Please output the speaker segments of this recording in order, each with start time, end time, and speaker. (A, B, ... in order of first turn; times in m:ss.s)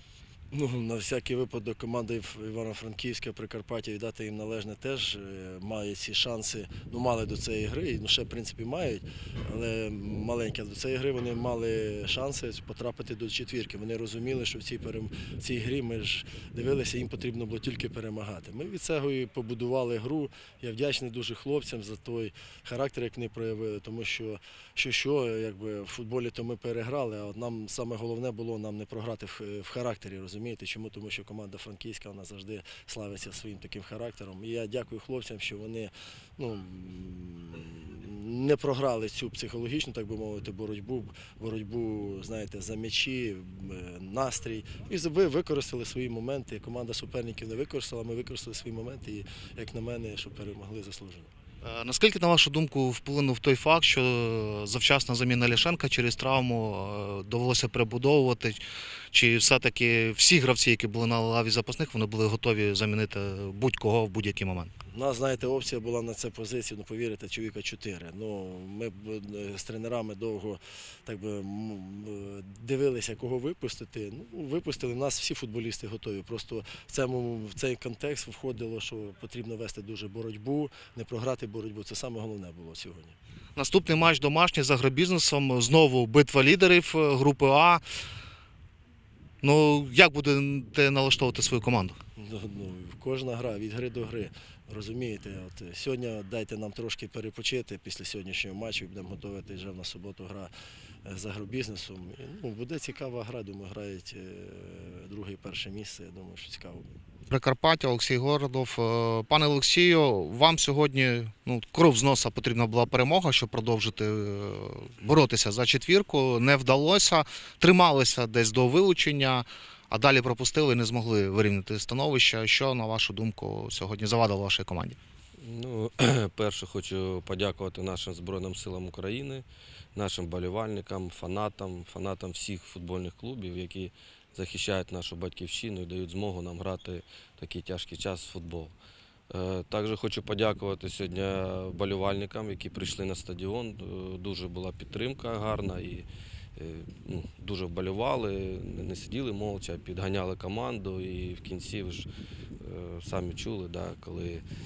0:00.5-0:51.3 A
0:51.6-0:58.6 B
0:59.1-1:04.7 B
1:04.9-1:23.2 A
1:23.6-1:27.8 B
1:29.4-1:32.0 B
1:32.2-1:40.5 A
1:41.0-1:46.9 A
1:47.3-2:05.0 B
2:05.4-2:18.8 C
2:19.3-2:32.1 C
2:32.6-2:34.4 C